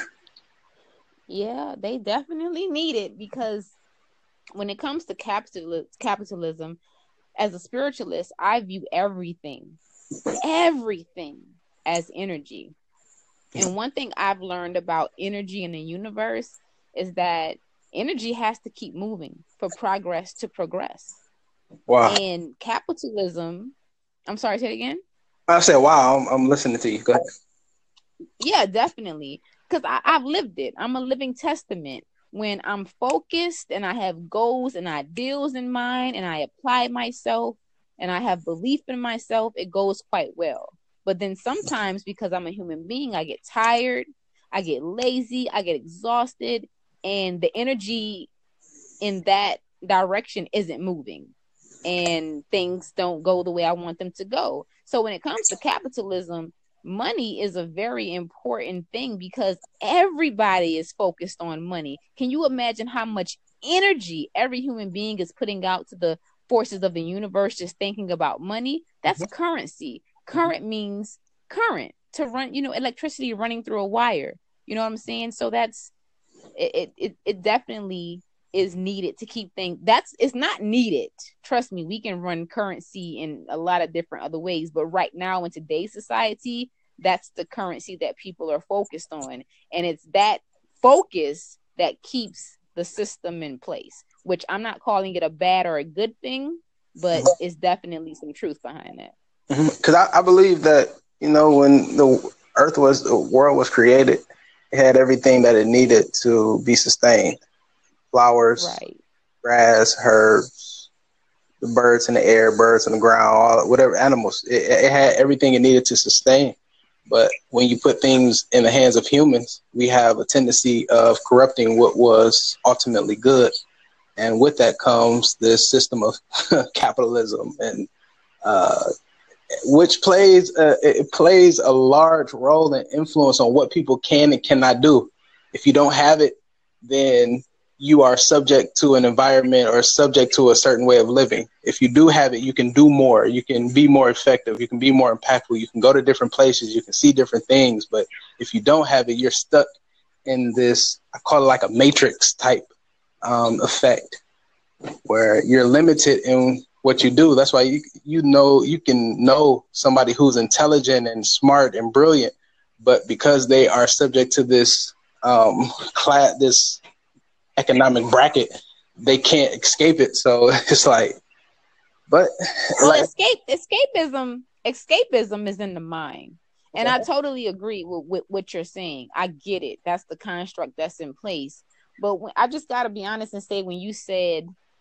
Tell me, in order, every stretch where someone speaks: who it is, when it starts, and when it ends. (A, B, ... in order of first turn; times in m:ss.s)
0:01.3-0:03.8 A
0:04.6-0:06.8 A
0:07.4-0:09.8 A
0:10.4-0:12.7 A
0:13.6-0:21.1 A
0:21.9-0:22.2 B
0:22.0-0:23.8 A
0:24.3-0:25.0 A
0:25.5-0:27.2 B
0:28.4-0:48.3 A
0:49.0-0:51.3 A
0:51.8-1:15.9 A
1:16.6-1:39.1 A
1:39.5-1:47.4 B
1:48.1-1:48.8 B
1:48.6-1:49.0 A
1:49.4-1:50.9 B
1:51.6-1:56.6 B
1:57.1-2:03.5 B
2:04.2-2:06.2 B
2:06.7-2:07.9 B
2:08.4-2:08.8 B
2:09.7-2:29.7 B
2:30.3-2:32.7 B
2:33.2-2:34.2 B
2:35.1-2:46.8 B
2:47.6-2:48.5 B
2:49.0-2:51.2 B
2:52.1-2:53.1 B
2:52.8-3:04.5 A
2:56.8-2:57.0 B